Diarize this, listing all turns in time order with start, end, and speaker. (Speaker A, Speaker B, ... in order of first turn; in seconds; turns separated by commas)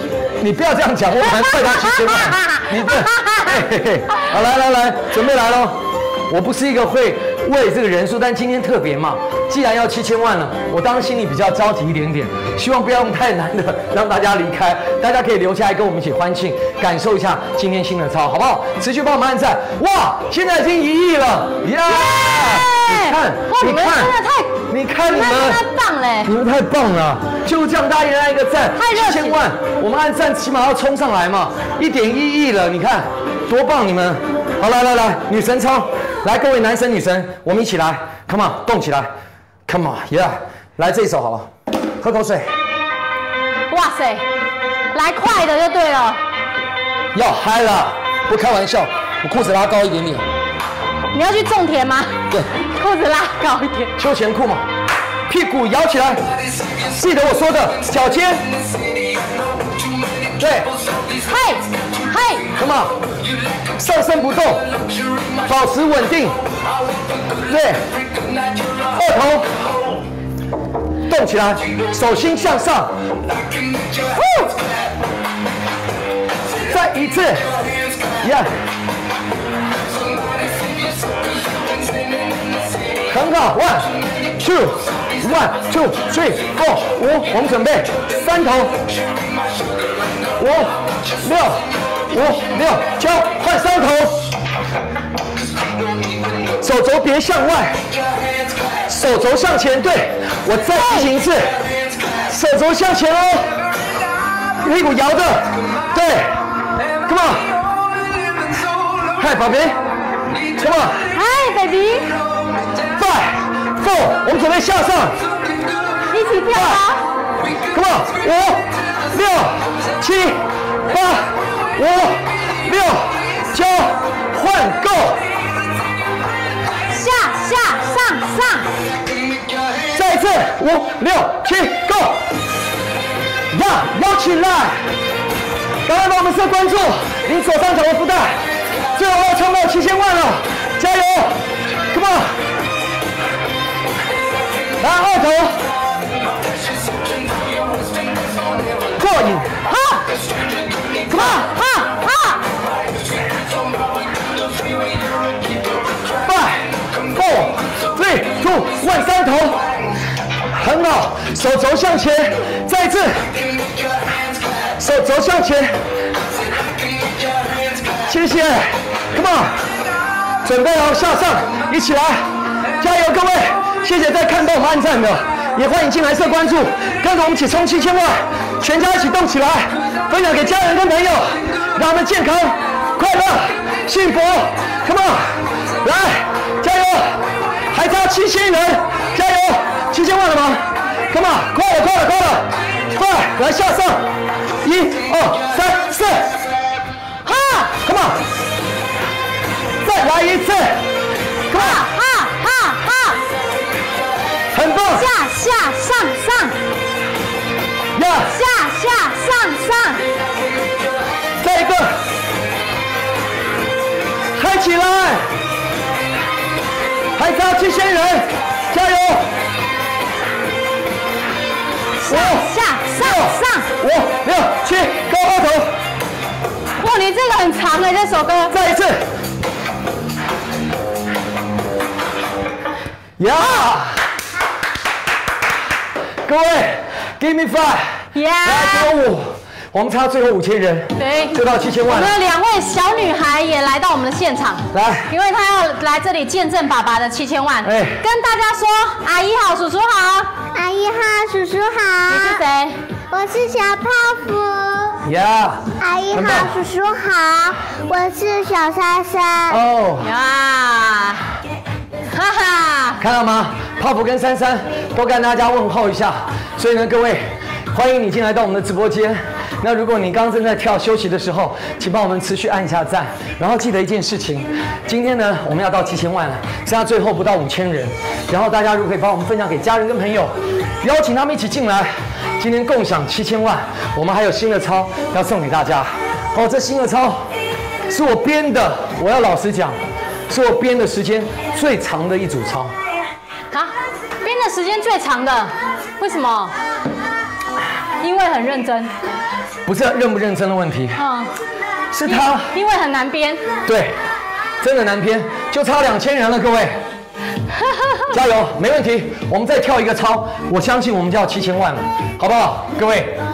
Speaker A: 0.4-24.1, Speaker B: 1.2-3.7, Speaker B: 21.9-26.3, Speaker A: 24.7-25.6, Speaker A: 26.2-39.1, Speaker B: 28.8-29.4, Speaker A: 39.7-41.5, Speaker A: 42.0-42.5, Speaker B: 43.7-44.3, Speaker B: 44.9-46.2, Speaker A: 47.1-50.3, Speaker B: 51.1-53.9, Speaker A: 54.0-54.7, Speaker A: 55.3-56.3, Speaker A: 56.8-58.5, Speaker A: 60.4-60.7, Speaker B: 61.2-62.5, Speaker A: 62.5-62.9, Speaker A: 63.8-64.7, Speaker A: 65.4-66.4, Speaker A: 67.5-67.8, Speaker A: 68.9-69.5, Speaker A: 71.1-73.0, Speaker B: 74.1-74.5, Speaker A: 76.7-77.6, Speaker A: 78.2-78.5, Speaker A: 83.1-88.8, Speaker A: 90.4-94.3, Speaker A: 96.6-97.8, Speaker A: 98.9-101.6, Speaker B: 100.7-101.1, Speaker A: 102.3-103.5, Speaker A: 104.6-106.4, Speaker A: 107.0-107.6, Speaker A: 109.2-109.8, Speaker A: 110.6-111.1, Speaker B: 111.1-112.2, Speaker A: 113.0-115.2, Speaker B: 116.1-117.1, Speaker A: 116.5-116.8, Speaker A: 117.7-125.2, Speaker B: 126.9-128.7, Speaker A: 129.9-132.2, Speaker A: 133.5-134.9, Speaker A: 135.9-138.4, Speaker A: 138.9-142.4, Speaker A: 144.8-145.7, Speaker A: 148.9-149.6, Speaker B: 149.6-150.1, Speaker A: 151.1-151.4, Speaker B: 151.1-152.4, Speaker A: 156.2-159.6, Speaker A: 160.5-163.3, Speaker A: 164.8-165.8, Speaker A: 168.1-169.6, Speaker A: 170.4-194.1, Speaker A: 194.6-196.3, Speaker B: 197.2-197.8, Speaker A: 197.8-198.2, Speaker A: 199.8-200.8, Speaker A: 201.5-201.8, Speaker B: 201.5-203.2, Speaker A: 204.5-205.1, Speaker B: 204.8-206.6, Speaker A: 207.9-208.4, Speaker B: 208.3-210.1, Speaker A: 211.4-212.0, Speaker A: 214.3-215.3, Speaker A: 217.2-219.3, Speaker B: 222.0-223.7, Speaker A: 222.1-222.4, Speaker A: 223.0-225.8, Speaker B: 226.8-228.5, Speaker A: 228.5-229.1, Speaker A: 233.2-234.1, Speaker A: 236.3-242.1, Speaker B: 238.1-238.9, Speaker B: 241.0-241.4, Speaker B: 241.9-250.4, Speaker A: 244.7-245.1, Speaker A: 247.6-248.0, Speaker C: 250.5-252.4, Speaker B: 252.1-252.8, Speaker C: 253.1-255.0, Speaker A: 255.0-256.6, Speaker C: 255.8-259.6, Speaker A: 259.5-260.1, Speaker B: 260.0-261.2, Speaker B: 262.1-263.0, Speaker A: 263.0-287.3, Speaker A: 287.9-292.7, Speaker B: 293.5-296.5, Speaker B: 298.0-298.9, Speaker A: 299.7-301.0, Speaker B: 301.0-301.3, Speaker A: 301.9-302.5, Speaker B: 302.1-303.4, Speaker A: 303.7-304.0, Speaker A: 304.6-306.8, Speaker B: 307.6-308.0, Speaker A: 308.1-313.2